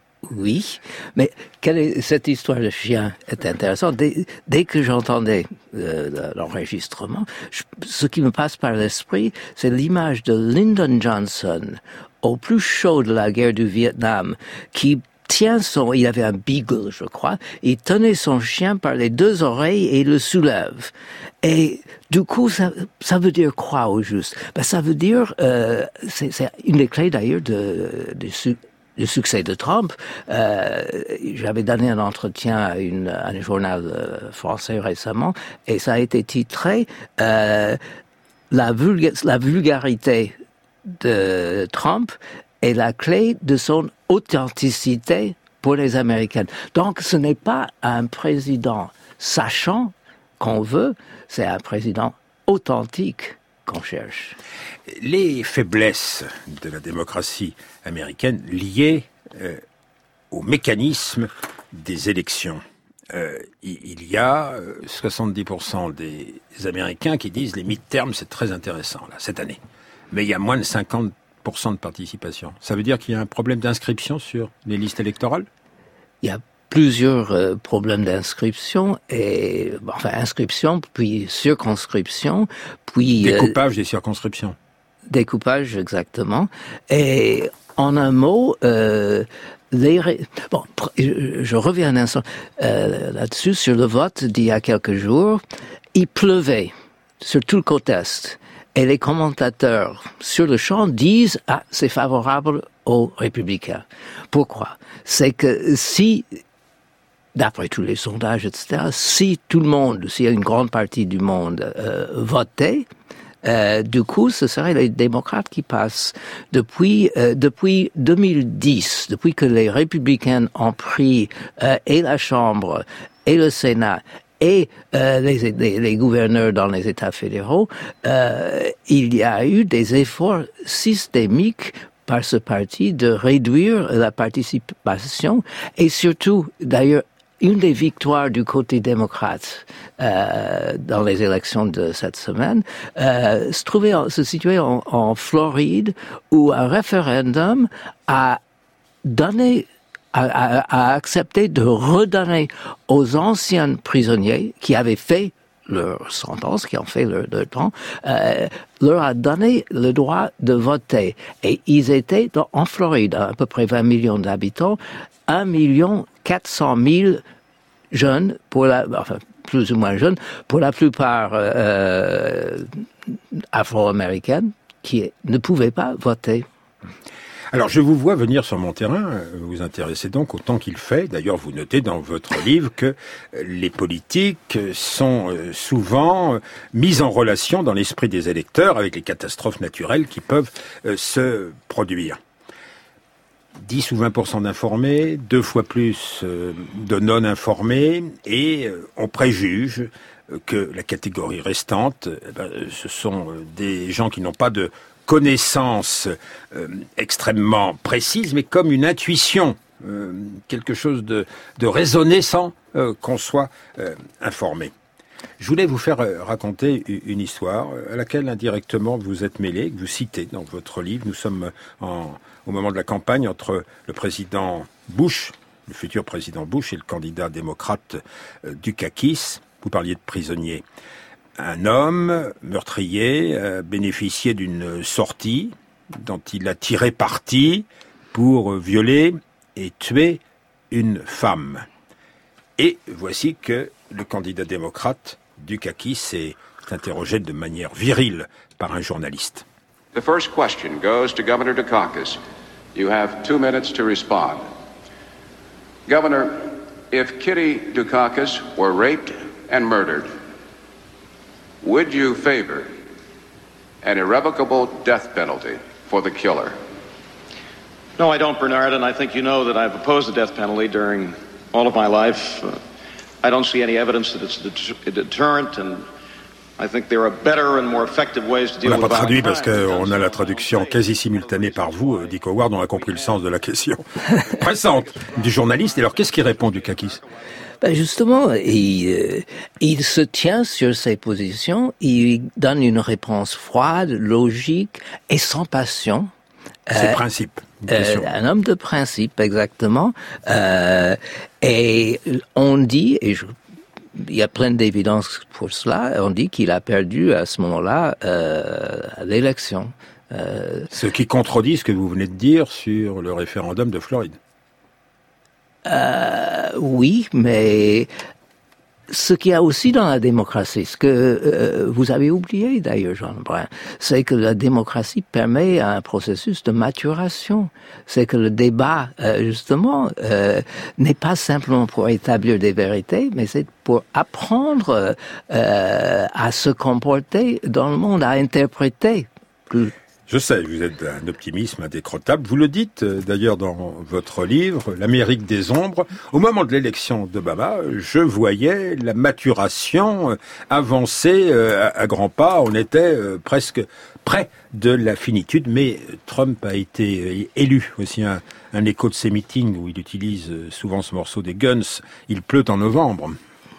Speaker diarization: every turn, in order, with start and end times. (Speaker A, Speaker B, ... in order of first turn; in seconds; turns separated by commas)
Speaker A: 0.2-37.8, Speaker A: 38.5-40.3, Speaker A: 41.0-54.4, Speaker B: 54.9-59.6, Speaker B: 60.3-69.6, Speaker B: 70.1-75.5, Speaker A: 76.2-83.5, Speaker B: 83.2-84.5, Speaker A: 85.1-95.4, Speaker A: 95.9-106.4, Speaker A: 107.3-112.9, Speaker A: 113.4-148.4, Speaker A: 149.0-167.2, Speaker A: 167.9-172.7, Speaker A: 173.5-176.4, Speaker B: 177.5-192.2, Speaker B: 193.6-214.7, Speaker B: 215.4-230.6, Speaker B: 231.4-241.7, Speaker B: 242.6-249.4, Speaker C: 249.9-252.2, Speaker C: 252.7-254.4, Speaker C: 255.9-260.1, Speaker C: 261.6-262.7, Speaker C: 263.8-266.6, Speaker D: 268.0-272.6, Speaker D: 273.2-275.9, Speaker D: 276.6-279.8, Speaker B: 278.6-287.0, Speaker A: 287.6-296.1, Speaker A: 296.7-297.0, Speaker B: 296.7-298.1, Speaker A: 297.7-303.3, Speaker A: 303.9-310.7, Speaker B: 310.7-314.2, Speaker A: 315.6-317.9, Speaker A: 318.9-339.7, Speaker B: 340.1-363.2